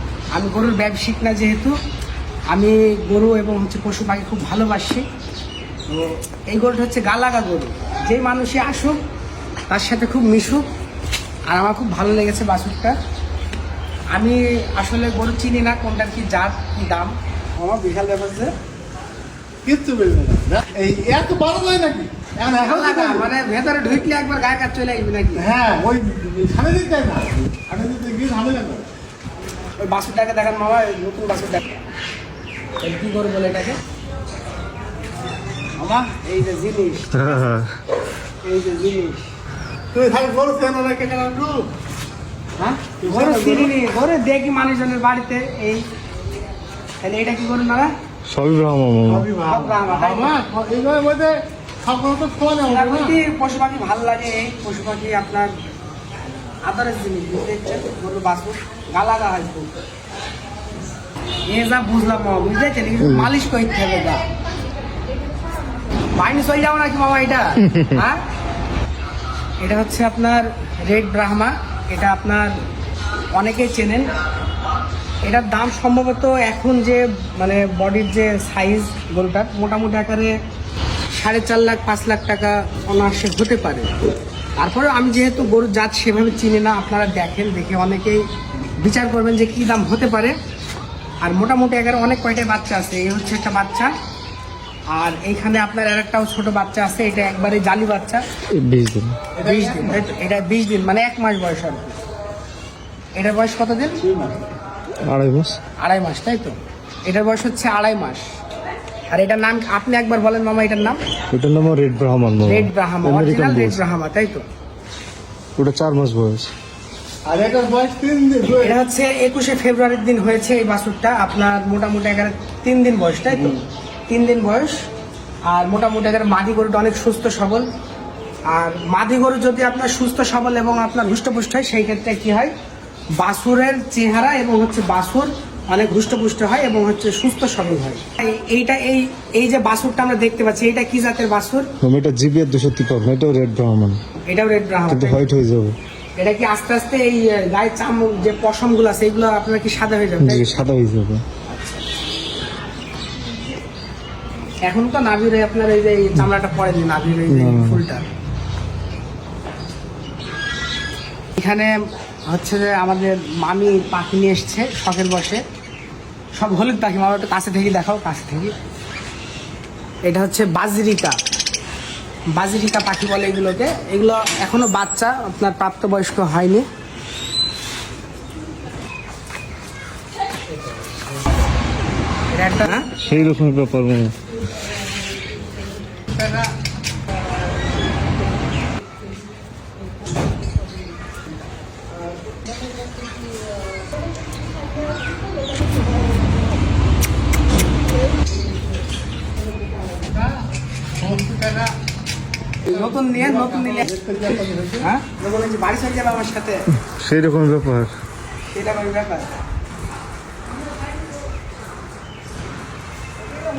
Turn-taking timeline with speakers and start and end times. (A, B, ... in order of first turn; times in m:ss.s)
0:00.4-0:01.7 A
0:02.5-0:05.0 A
0:05.9-0:09.0 A
0:09.7-0:10.7 A
0:11.5-0:13.0 A
0:14.1-0:18.5 A
0:19.6-0:23.3 B
0:22.6-0:25.5 A
0:25.4-0:28.9 B
0:29.8-0:31.7 A
0:32.8-0:33.8 A
0:35.8-0:37.5 A
0:37.2-0:37.7 C
0:38.4-0:39.2 A
0:39.9-0:41.7 B
0:42.6-0:45.9 A
0:42.8-0:43.7 B
0:47.0-0:47.9 A
0:48.3-0:49.3 C
0:49.1-0:53.2 B
0:49.5-0:50.4 A
0:52.7-0:55.5 A
0:56.7-0:59.8 A
1:01.5-1:04.2 A
1:06.1-1:08.2 A
1:09.6-1:12.6 A
1:13.3-1:14.1 A
1:15.2-1:20.4 A
1:21.1-1:24.0 A
1:24.6-1:28.3 A
1:28.8-1:30.4 A
1:31.2-1:33.9 A
1:34.9-1:38.2 A
1:38.6-1:39.2 C
1:39.4-1:40.1 B
1:39.4-1:42.0 A
1:43.2-1:44.0 A
1:44.0-1:44.4 B
1:45.1-1:45.6 C
1:45.8-1:48.3 A
1:49.1-1:51.0 A
1:51.3-1:53.8 C
1:52.4-1:54.4 A
1:55.6-1:56.5 C
1:57.3-1:58.8 B
1:58.6-2:04.9 A
2:05.5-2:07.7 A
2:08.5-2:12.5 A
2:13.2-2:21.7 A
2:21.8-2:24.0 C
2:24.2-2:25.3 A
2:24.9-2:25.8 C
2:26.2-2:30.6 A
2:30.2-2:31.2 C
2:31.5-2:31.8 A
2:34.7-2:38.0 A
2:37.3-2:37.8 C
2:41.4-2:41.8 A
2:42.3-2:45.4 A
2:46.4-2:48.5 A
2:50.0-2:51.2 A
2:52.3-2:56.7 A
3:02.3-3:02.9 A
3:03.0-3:04.2 C
3:06.2-3:06.5 A
3:19.7-3:20.4 B
3:21.0-3:21.8 B
3:22.6-3:23.9 A
3:22.7-3:24.9 B
3:24.8-3:26.7 A
3:27.0-3:27.9 C
3:28.5-3:29.3 A